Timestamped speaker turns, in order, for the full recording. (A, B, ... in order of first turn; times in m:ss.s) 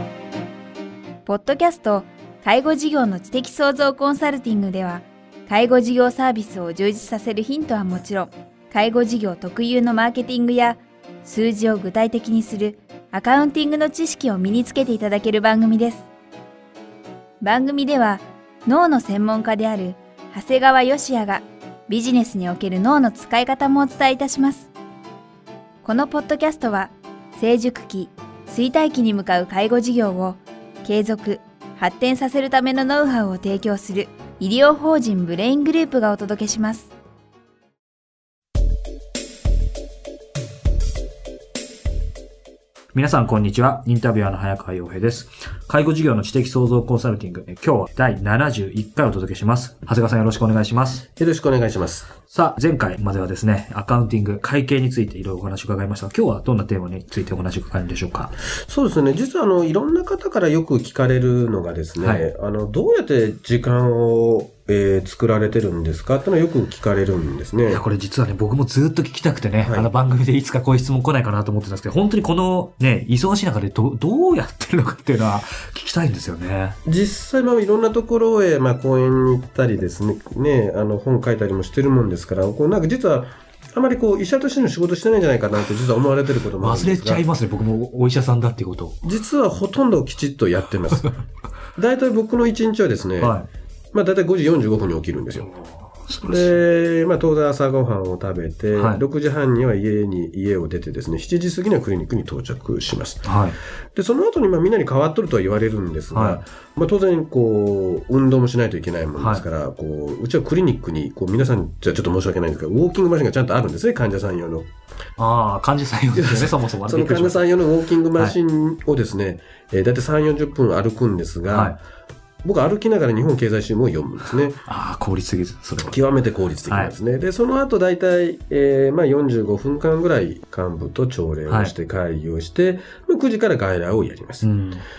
0:01.2-0:16.1 A
0:17.4-0:24.7 A
0:25.8-0:36.9 A
0:42.9-0:51.1 B
0:51.2-0:52.1 C
0:52.2-0:58.4 B
0:58.7-1:07.8 C
1:02.0-1:02.3 B
1:07.7-1:16.8 B
1:09.6-1:09.9 C
1:16.9-1:27.2 C
1:26.6-1:29.0 B
1:29.0-1:31.1 C
1:31.8-1:33.4 C
1:33.2-1:33.5 B
1:33.9-1:35.5 C
1:35.3-1:36.6 B
1:36.3-1:43.3 C
1:38.7-1:39.0 B
1:43.2-1:43.6 B
1:43.9-1:54.7 C
1:46.1-1:46.4 B
1:49.2-1:49.4 B
1:55.2-1:57.4 B
1:56.1-2:01.8 C
2:01.5-2:01.8 B
2:02.4-2:04.6 C
2:04.7-2:06.0 B
2:05.8-2:14.5 C
2:06.7-2:06.9 B
2:11.5-2:11.7 B
2:14.4-2:14.8 B